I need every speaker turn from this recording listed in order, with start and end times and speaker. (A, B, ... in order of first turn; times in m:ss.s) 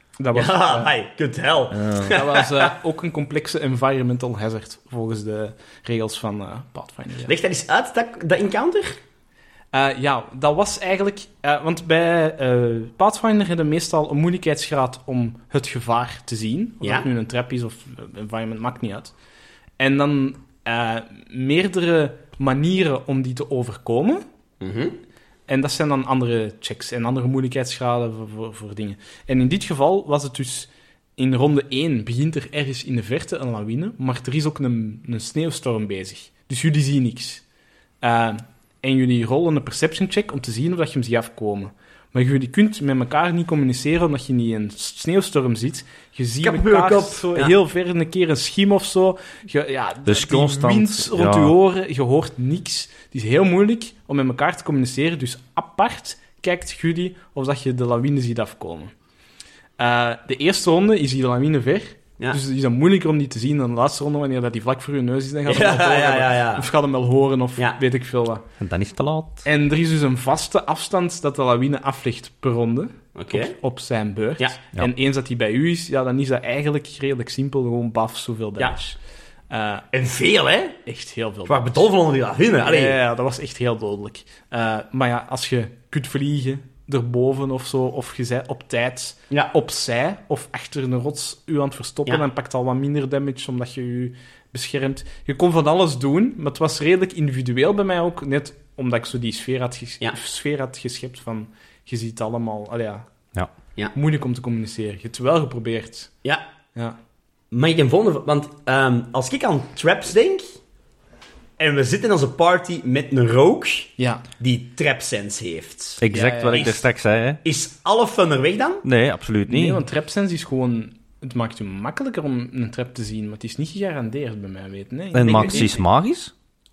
0:00.2-0:00.9 A
0:00.3-0:02.7 B
0:01.7-0:02.1 C
0:02.1-0:07.3 A
0:07.2-0:09.0 B
0:09.7-0:19.1 A
0:19.8-0:24.2 A
0:24.6-0:25.0 B
0:25.5-0:37.4 A
0:38.0-0:58.9 A
0:46.4-0:47.5 B
0:50.0-0:51.5 C
0:59.8-1:08.4 A
1:05.5-1:06.7 B
1:08.6-1:09.4 C
1:09.4-1:19.0 A
1:13.2-1:13.5 B
1:19.5-1:19.8 A
1:19.9-1:20.8 B
1:20.8-1:21.8 A
1:21.4-1:23.0 B
1:22.6-1:43.0 A
1:43.9-1:46.1 A
1:47.5-1:50.4 B
1:51.6-1:56.8 B
1:54.0-1:54.2 A
1:56.0-1:57.4 C
1:56.1-1:56.8 A
1:57.4-1:58.8 B
1:58.8-1:59.8 C
1:59.5-2:05.8 A
2:05.1-2:06.3 C
2:05.2-2:05.7 B